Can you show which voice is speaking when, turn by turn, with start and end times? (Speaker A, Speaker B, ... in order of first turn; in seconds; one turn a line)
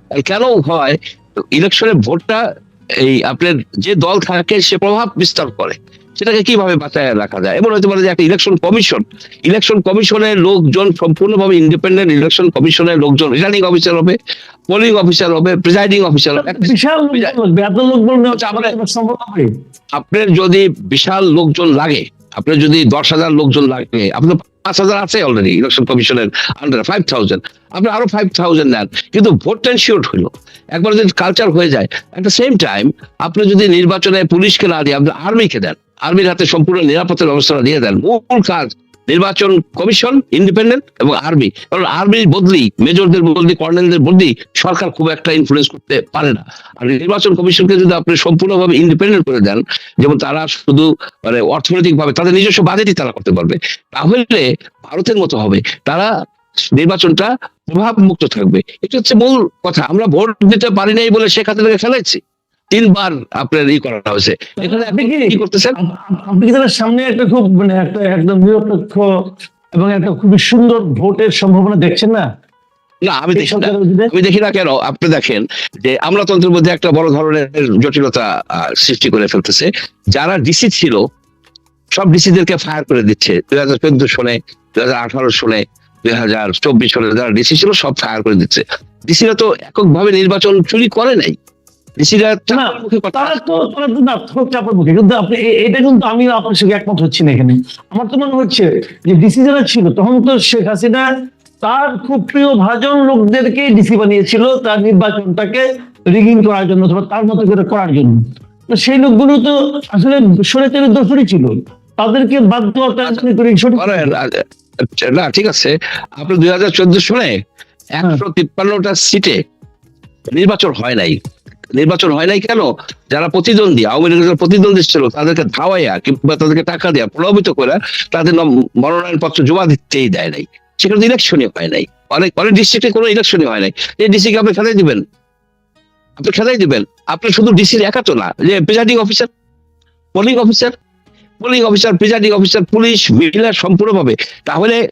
Speaker A: 0.1-2.4
Speaker A: 3.0-14.2
Speaker A: 14.7-17.3
Speaker B: 16.4-19.5
Speaker A: 18.3-18.7
Speaker A: 19.9-56.1
Speaker A: 56.7-62.2
Speaker A: 62.7-65.7
Speaker B: 64.6-69.0
Speaker B: 69.8-72.2
Speaker A: 73.0-81.0
Speaker B: 73.3-74.1
Speaker A: 81.9-91.3
Speaker A: 92.0-93.3
Speaker B: 92.5-101.0
Speaker B: 101.6-108.2
Speaker B: 108.7-114.1
Speaker A: 113.7-117.4
Speaker A: 117.9-119.4
Speaker A: 120.3-121.2
Speaker A: 121.7-135.0
Speaker A: 136.2-139.3
Speaker A: 140.1-140.7
Speaker A: 141.4-144.8